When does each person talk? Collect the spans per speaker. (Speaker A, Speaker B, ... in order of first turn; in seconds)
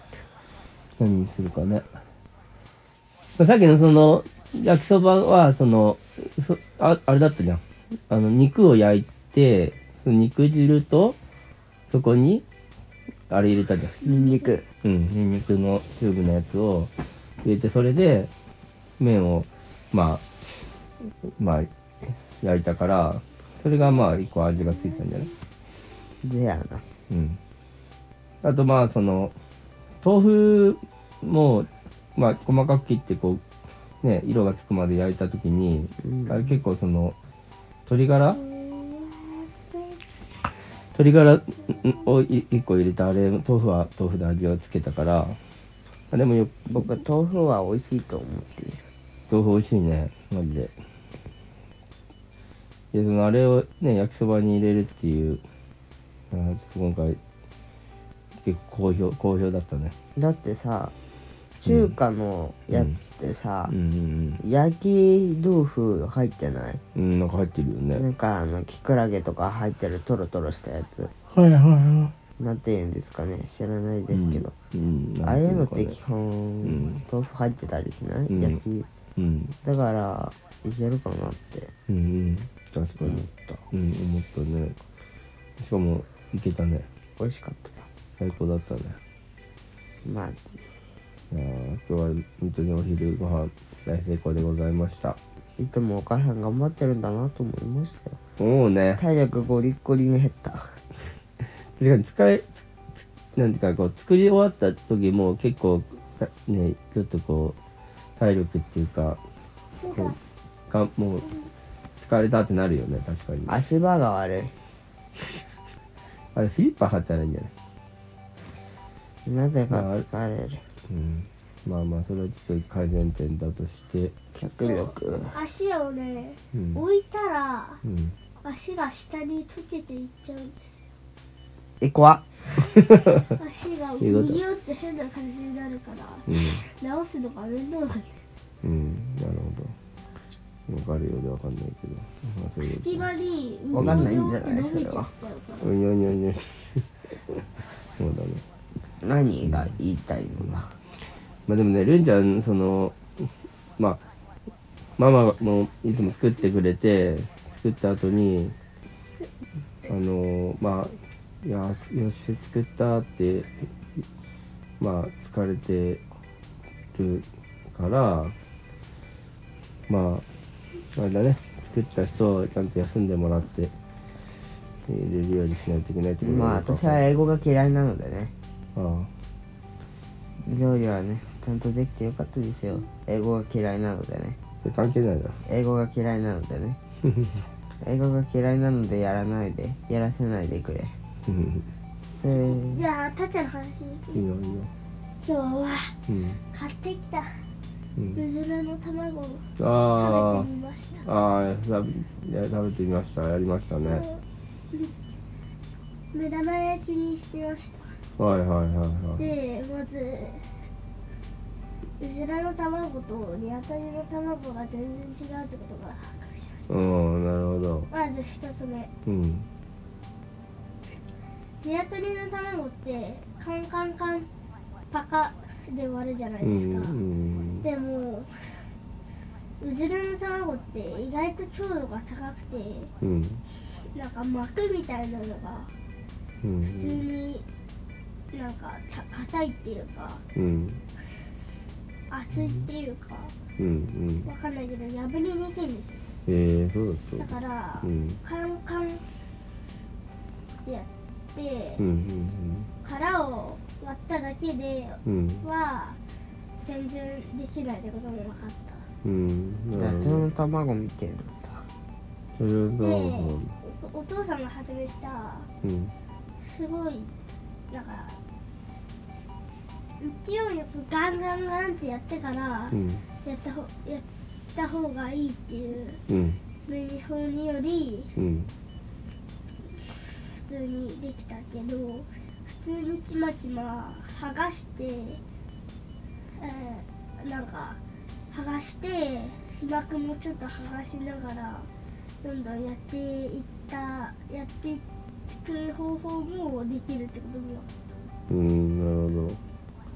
Speaker A: 1.0-1.9, 3.4-11.2, 11.9-12.4, 13.3-14.0, 14.8-16.9, 17.4-18.3, 19.0-20.2, 21.4-21.7, 22.4-25.3, 27.1-27.4, 28.4-29.4, 30.0-33.4, 34.0-37.1, 37.9-38.4, 40.9-45.4, 46.1-46.9, 49.3-50.7, 52.9-55.4, 56.3-57.2, 58.4-59.9, 61.6-62.0, 62.7-63.0, 63.7-64.4, 66.9-68.0, 71.3-72.1, 74.1-76.0, 76.6-77.0, 78.3-78.6, 79.2-79.5, 81.9-84.8, 85.6-86.9, 88.2-89.0, 91.3-95.2, 98.4-99.0, 101.5-107.6, 108.2-109.2, 110.7-111.3, 112.0-113.6, 116.3-117.5, 119.7-120.0, 120.9-124.2, 126.5-126.8, 127.8-128.2, 132.8-133.3, 134.0-134.4, 136.3-136.6, 138.6-139.7, 140.7-143.1, 143.7-144.1, 145.6-147.4, 148.0-148.4, 149.4-149.7, 151.5-154.0, 155.0-158.5, 159.9-163.5, 164.8-166.0, 166.9-168.3, 169.9-170.2, 170.9-173.7, 174.8-177.0, 178.7-179.1, 184.6-185.4, 187.0-187.4, 191.2-191.7, 194.1-194.7, 196.1-196.4, 197.9-198.2, 199.6-200.5, 201.0-204.1, 208.2-209.3, 216.7-217.9, 219.1-219.5, 226.4-227.7, 233.0-233.4, 236.4-237.1, 240.3-240.8, 243.6-244.3, 246.2-247.3, 247.8-248.2, 251.8-252.7, 255.0-255.4, 259.0-260.3, 262.4-263.5, 265.6-265.9, 272.7-273.0, 276.1-276.4, 278.1-278.5, 298.3-299.4
Speaker B: 14.0-14.6, 38.3-40.0, 109.8-110.2, 124.6-127.8, 128.4-130.8, 133.4-138.2, 142.6-145.7, 192.3-194.3, 195.2-195.9, 196.5-197.4, 198.1-201.1, 203.8-204.9, 206.1-207.9, 209.2-210.5, 212.0-216.9, 217.9-218.9, 221.6-224.3, 224.9-227.0, 227.6-228.7, 229.6-232.9, 233.7-235.7, 236.6-237.4, 238.3-240.2, 242.1-243.3, 244.2-246.0, 247.2-249.0, 250.6-251.8, 252.8-256.0, 256.6-258.8, 262.8-265.5, 266.4-267.1, 267.7-268.2, 270.0-276.0, 276.6-278.1, 279.9-285.2, 286.3-287.8, 288.3-291.7, 292.2-297.6
Speaker C: 14.0-14.6, 26.2-26.8, 36.0-36.4, 46.7-48.9, 60.1-60.9, 61.6-63.7, 64.4-66.8, 67.9-71.1, 72.4-74.5, 75.2-78.8, 79.6-81.7, 83.0-83.6, 87.2-87.8, 90.0-90.6, 95.6-98.2, 99.0-100.7, 113.5-114.5, 119.2-120.6, 124.3-125.4, 131.8-132.2, 143.7-145.1, 149.0-150.7, 176.2-178.3, 180.4-184.4, 185.5-186.8, 187.8-190.9, 192.1-192.8, 259.7-261.6